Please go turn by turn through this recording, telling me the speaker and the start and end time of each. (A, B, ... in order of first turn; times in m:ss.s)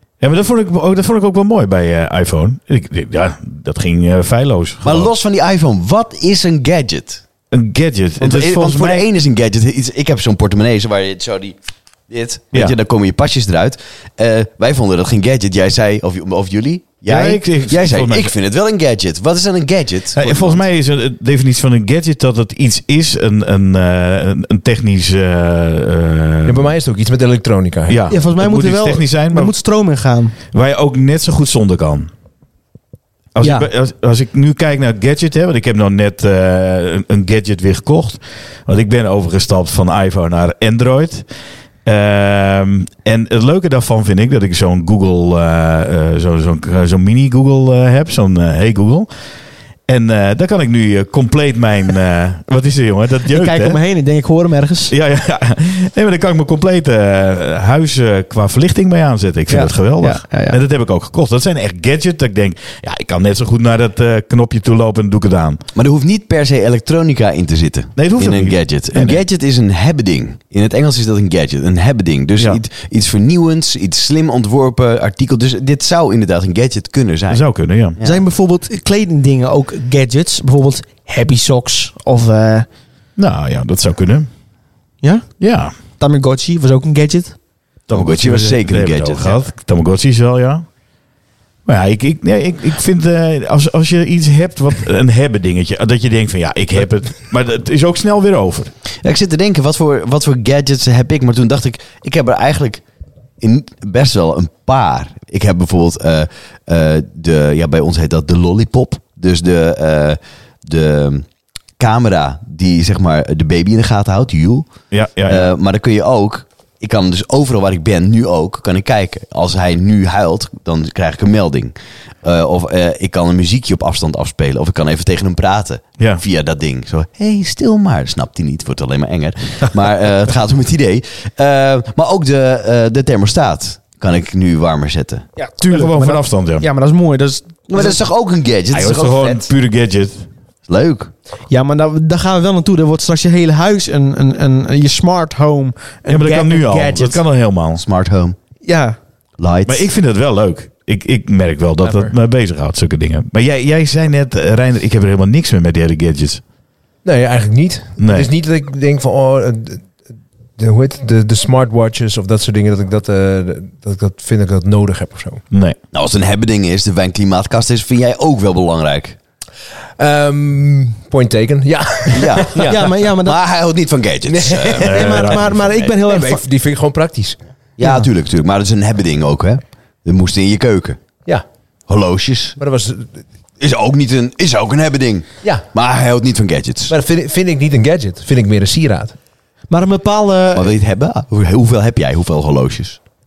0:00.2-0:05.1 A
0:04.8-0:07.2 B
0:07.5-0:09.1 A
0:08.2-0:11.6 B
0:12.1-0:20.6 B
0:17.1-0:18.3 A
0:20.2-0:26.7 A
0:26.4-0:28.0 C
0:27.9-0:29.5 A
0:28.1-0:30.3 D
0:30.5-0:32.1 A
0:33.3-0:41.2 A
0:33.4-0:33.7 D
0:41.8-0:49.1 A
0:49.9-0:53.8 A
0:53.3-0:54.9 D
0:54.9-1:05.6 A
0:59.5-1:00.6 D
1:05.8-1:17.4 B
1:08.0-1:09.2 A
1:17.3-1:18.0 A
1:18.0-1:18.2 B
1:18.0-1:22.7 D
1:23.2-1:24.3 A
1:25.4-1:25.7 A
1:26.0-1:27.4 D
1:27.9-1:30.6 A
1:27.9-1:29.4 B
1:31.6-1:38.7 A
1:39.0-1:42.8 B
1:43.4-1:51.2 B
1:51.8-1:54.7 B
1:54.9-1:55.5 A
1:55.3-2:15.2 B
2:15.4-2:18.0 D
2:15.7-2:16.6 A
2:17.7-2:19.5 B
2:18.7-2:20.2 A
2:20.7-2:21.1 B
2:21.5-2:27.2 D
2:26.1-2:27.8 A
2:27.8-2:28.4 B
2:28.6-2:29.0 D
2:29.4-2:29.9 B
2:29.6-2:36.4 A
2:31.8-2:32.1 D
2:37.0-2:39.9 C
2:38.0-2:38.3 A
2:40.6-2:45.4 C
2:45.5-2:45.8 A
2:45.9-2:49.2 B
2:50.0-2:52.9 C
2:52.1-2:55.0 B
2:52.5-2:53.4 D
2:54.2-2:54.9 C
2:54.8-2:56.4 D
2:54.8-2:55.7 A
2:55.7-2:57.4 C
2:57.8-3:01.0 B
3:01.9-3:02.6 B
3:02.6-3:03.2 C
3:03.6-3:06.9 B
3:06.9-3:09.1 C
3:09.7-3:10.7 D
3:10.5-3:13.0 B